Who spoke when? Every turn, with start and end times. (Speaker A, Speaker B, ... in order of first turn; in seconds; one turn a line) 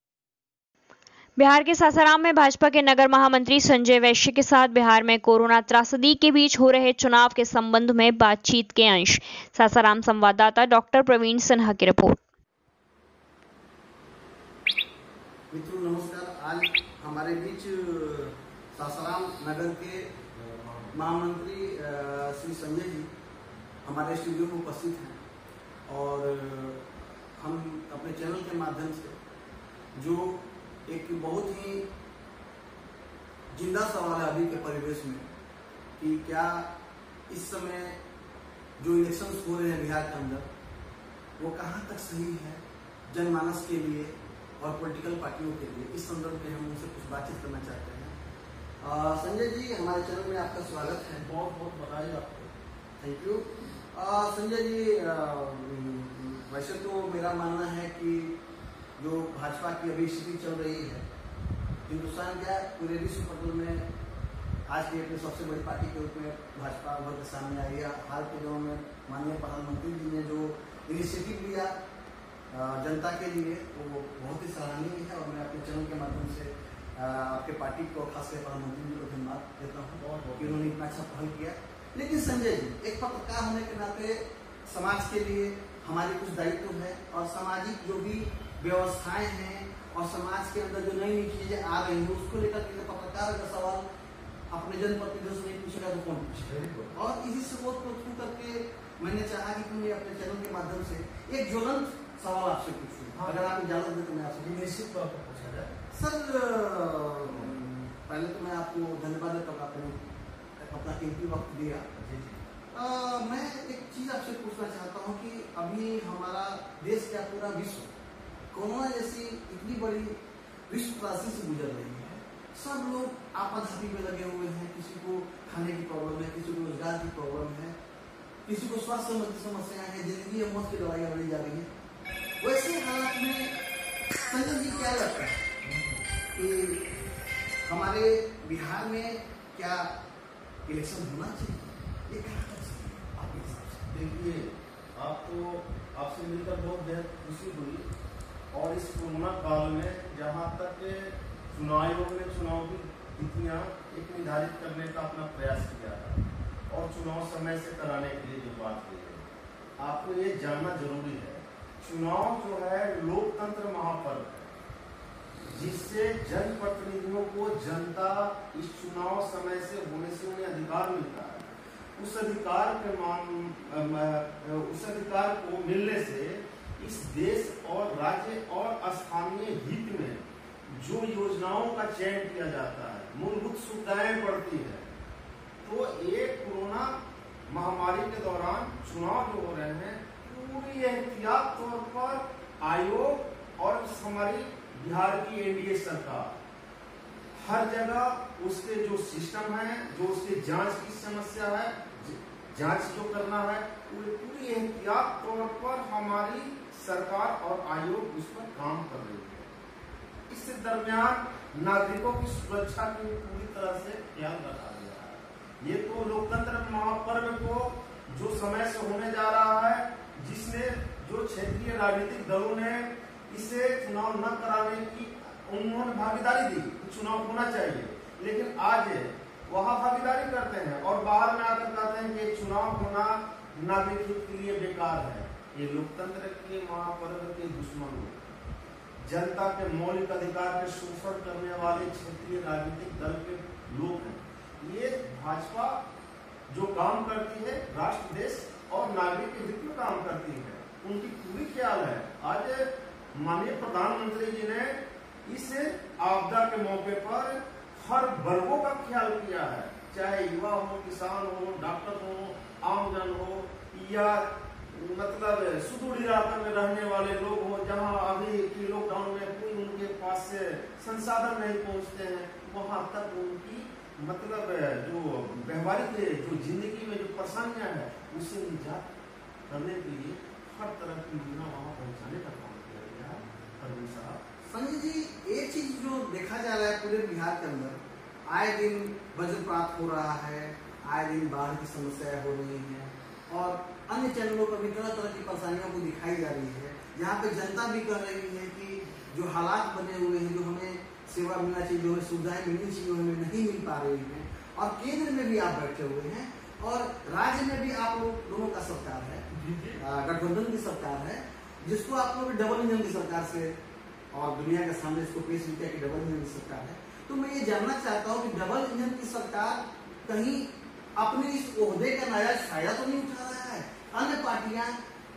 Speaker A: 1.4-12.2
Speaker B: 15.5-20.2
Speaker C: 20.3-21.0
Speaker B: 20.9-23.1
Speaker B: 23.8-25.2
Speaker B: 25.9-29.2
Speaker B: 29.9-31.9
Speaker B: 33.5-35.3
Speaker B: 36.0-36.7
Speaker B: 37.3-38.0
Speaker B: 38.8-40.5
Speaker B: 41.4-48.1
Speaker B: 48.8-51.2
Speaker C: 51.2-52.5
Speaker B: 53.0-58.4
Speaker B: 59.0-61.0
Speaker B: 61.9-63.9
Speaker B: 64.7-71.7
Speaker B: 72.5-93.8
Speaker C: 80.0-80.8
Speaker B: 94.5-104.6
Speaker C: 96.3-97.0
Speaker C: 103.1-103.6
Speaker C: 104.4-105.8
Speaker B: 105.9-111.9
Speaker C: 107.3-107.6
Speaker C: 111.9-112.4
Speaker B: 112.7-118.0
Speaker B: 118.5-120.2
Speaker B: 120.7-127.7
Speaker B: 128.4-131.7
Speaker B: 132.4-133.5
Speaker B: 134.1-135.4
Speaker C: 135.6-135.9
Speaker B: 136.3-136.9
Speaker B: 137.6-139.9
Speaker B: 140.7-143.9
Speaker C: 143.9-147.9
Speaker C: 148.5-164.5
Speaker C: 165.5-184.9
Speaker C: 185.6-196.3
Speaker C: 197.4-209.5
Speaker C: 210.3-238.3
Speaker C: 239.0-245.8
Speaker C: 246.5-278.9
Speaker C: 279.5-284.2
Speaker B: 284.5-309.2
Speaker C: 309.3-309.8
Speaker B: 309.8-313.5
Speaker B: 314.1-324.8